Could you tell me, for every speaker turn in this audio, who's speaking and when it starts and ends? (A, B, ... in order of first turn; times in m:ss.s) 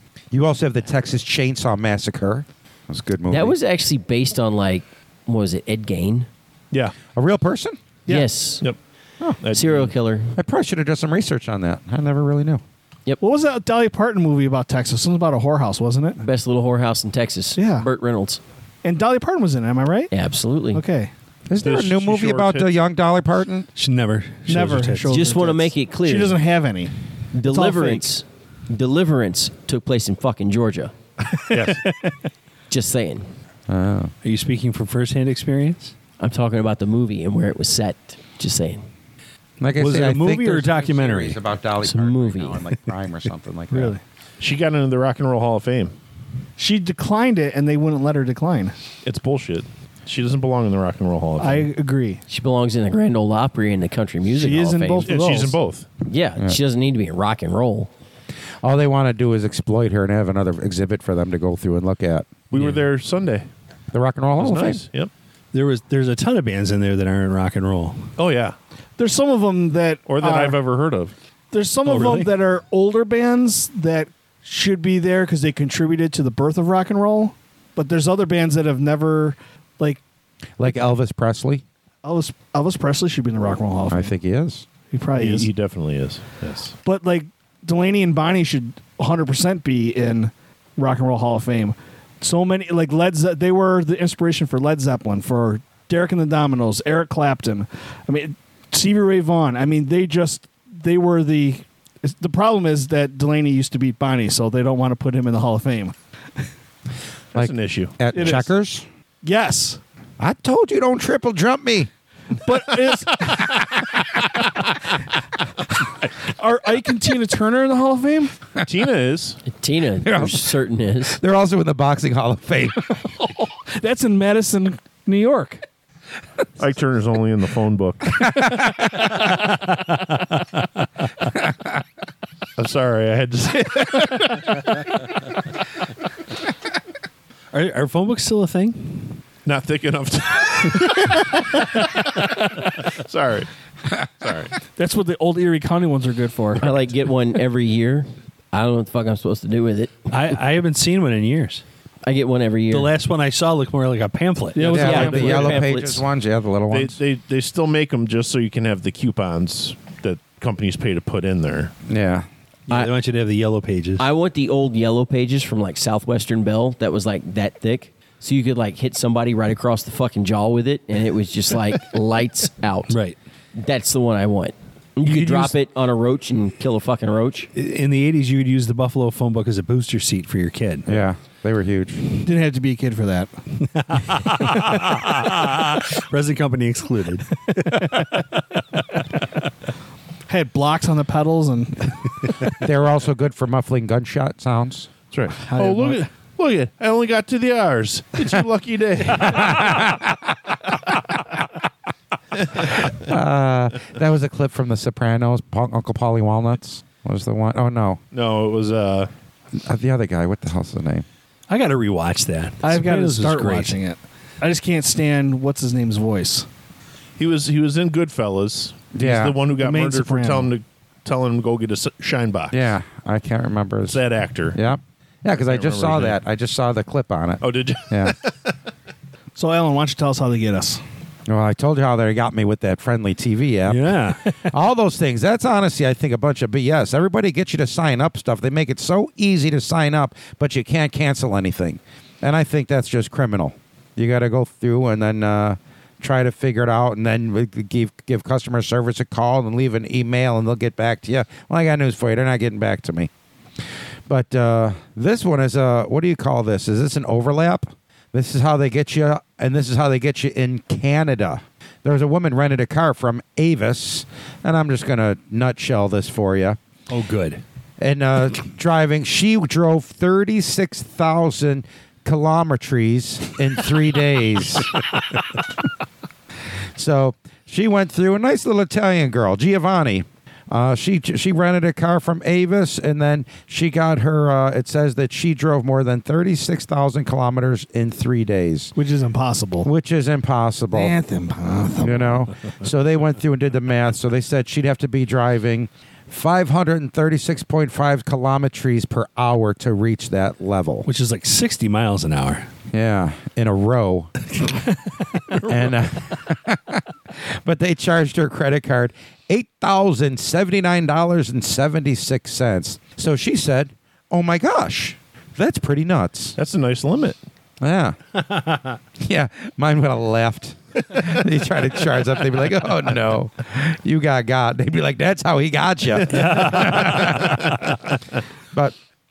0:00.3-0:03.6 A
0:03.3-0:06.3 B
0:07.1-0:07.8 A
0:08.1-0:08.7 B
0:09.4-0:09.9 C
0:09.5-0:10.4 B
0:10.4-0:12.6 A
0:13.2-0:16.2 D
0:16.2-0:18.4 B
0:17.6-0:17.9 D
0:18.8-0:20.1 D
0:20.1-0:20.8 B
0:20.7-0:21.1 D
0:21.5-0:23.7 A
0:21.6-0:22.7 C
0:23.8-0:25.1 E
0:24.5-0:26.9 D
0:25.1-0:26.4 B
0:27.3-0:30.9 B
0:27.4-0:28.1 D
0:31.5-0:31.8 C
0:32.7-0:33.3 B
0:33.7-0:34.1 A
0:34.2-0:35.9 E
0:36.2-0:38.8 B
0:39.6-0:43.9 A
0:39.8-0:41.4 E
0:41.8-0:42.6 B
0:43.7-0:44.0 D
0:44.4-0:45.9 C
0:46.6-0:48.7 D
0:49.0-0:51.7 C
0:51.4-0:52.2 D
0:52.3-0:55.2 B
0:54.3-0:55.6 D
0:55.0-0:55.9 C
0:56.0-0:57.9 B
0:58.6-1:02.3 A
1:02.5-1:03.4 C
1:03.9-1:04.8 A
1:04.4-1:05.1 C
1:05.5-1:08.1 E
1:08.2-1:08.6 C
1:09.0-1:10.6 D
1:10.1-1:11.1 C
1:11.5-1:20.0 D
1:11.8-1:12.4 E
1:20.6-1:21.6 A
1:22.0-1:24.1 D
1:23.9-1:24.7 A
1:24.9-1:25.5 D
1:25.1-1:26.7 C
1:26.8-1:45.9 D
1:47.3-1:48.3 C
1:47.3-1:48.8 A
1:48.1-1:48.5 D
1:49.2-1:49.8 D
1:50.2-1:51.9 A
1:52.4-1:53.6 D
1:56.2-1:58.3 D
1:58.6-1:59.4 C
1:59.5-2:01.2 B
2:00.0-2:00.5 A
2:01.1-2:02.9 A
2:03.2-2:05.6 D
2:06.6-2:08.2 C
2:08.3-2:09.0 A
2:09.4-2:10.6 E
2:12.6-2:14.6 C
2:17.5-2:19.2 E
2:19.4-2:23.5 C
2:24.0-2:24.5 C
2:24.8-2:26.7 D
2:26.6-2:30.1 B
2:30.1-2:31.6 E
2:32.0-2:32.9 B
2:32.7-2:35.2 E
2:34.5-2:35.4 D
2:34.6-2:35.6 C
2:34.6-2:36.0 B
2:34.7-2:37.0 A
2:36.7-2:41.7 C
2:41.9-2:42.2 A
2:42.7-2:44.0 E
2:44.0-2:52.9 B
2:52.9-2:53.2 E
2:53.5-2:57.5 B
2:55.0-2:55.5 E
2:57.5-3:01.0 E
3:00.9-3:02.1 A
3:02.2-3:03.3 D
3:03.6-3:09.0 E
3:10.3-3:12.0 D
3:12.5-3:14.9 A
3:15.1-3:19.9 C
3:15.4-3:16.0 D
3:19.2-3:20.3 A
3:22.8-3:28.0 A
3:28.1-3:29.1 C
3:29.5-3:31.0 A
3:31.5-3:33.8 E
3:32.6-3:36.5 D
3:37.2-3:42.7 C
3:39.0-3:39.4 A
3:39.5-3:40.5 D
3:42.5-3:44.0 A
3:43.9-3:44.6 C
3:44.5-3:48.2 A
3:45.5-3:46.2 C
3:47.4-3:48.5 C
3:49.4-3:50.8 D
3:51.3-4:13.1 A
3:53.6-3:54.5 E
4:14.1-4:26.6 A
4:26.9-4:27.4 E
4:27.8-4:34.8 A
4:36.8-4:48.7 A
4:48.8-4:49.7 D
4:49.6-4:51.0 A
4:50.7-4:52.2 D
4:51.8-5:00.9 A
5:00.8-5:02.5 E
5:02.7-5:04.2 A
5:05.3-5:16.4 A
5:16.4-5:17.2 C
5:17.6-5:18.0 A
5:19.0-5:27.9 A
5:26.0-5:27.4 E